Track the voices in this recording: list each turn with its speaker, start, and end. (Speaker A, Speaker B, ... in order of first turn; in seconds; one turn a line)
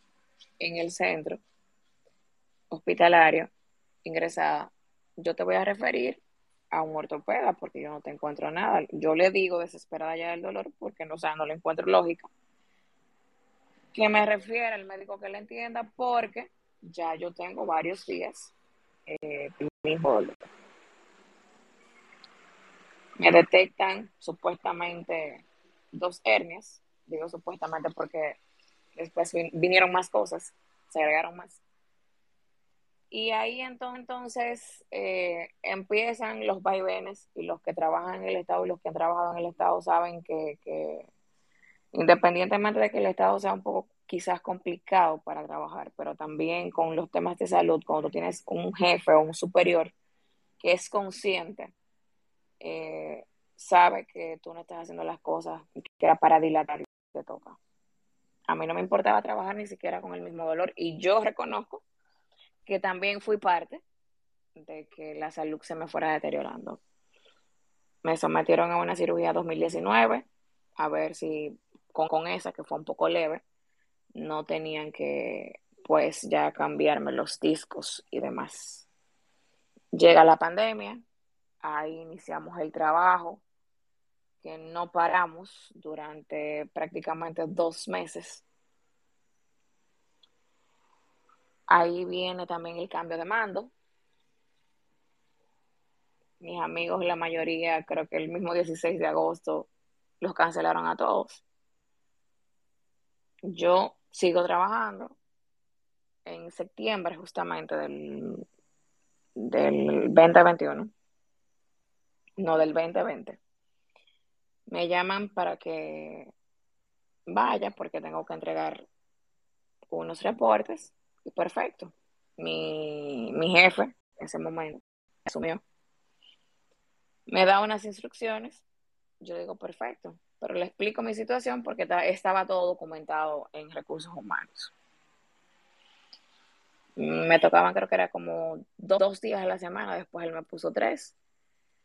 Speaker A: 0.6-1.4
Speaker A: 2.7-3.5
Speaker A: 4.0-6.2
Speaker A: 6.7-12.3
Speaker A: 13.9-18.5
Speaker A: 19.1-20.4
Speaker A: 23.2-28.4
Speaker A: 28.9-31.6
Speaker A: 33.1-41.1
Speaker A: 41.9-49.9
Speaker A: 50.6-51.7
Speaker A: 52.6-57.6
Speaker A: 58.5-61.8
Speaker A: 62.6-63.8
Speaker A: 64.6-66.8
Speaker A: 68.0-70.2
Speaker A: 70.8-73.4
Speaker A: 74.1-78.9
Speaker A: 79.9-81.0
Speaker A: 81.6-83.4
Speaker A: 84.4-88.4
Speaker A: 91.7-93.7
Speaker A: 96.4-99.7
Speaker A: 100.2-101.4
Speaker A: 103.4-105.1
Speaker A: 106.2-108.4
Speaker A: 109.4-110.9
Speaker A: 112.4-113.4
Speaker A: 114.7-116.3
Speaker A: 117.3-118.8
Speaker A: 119.9-125.6
Speaker A: 127.3-128.6
Speaker A: 129.2-134.7
Speaker A: 137.0-141.1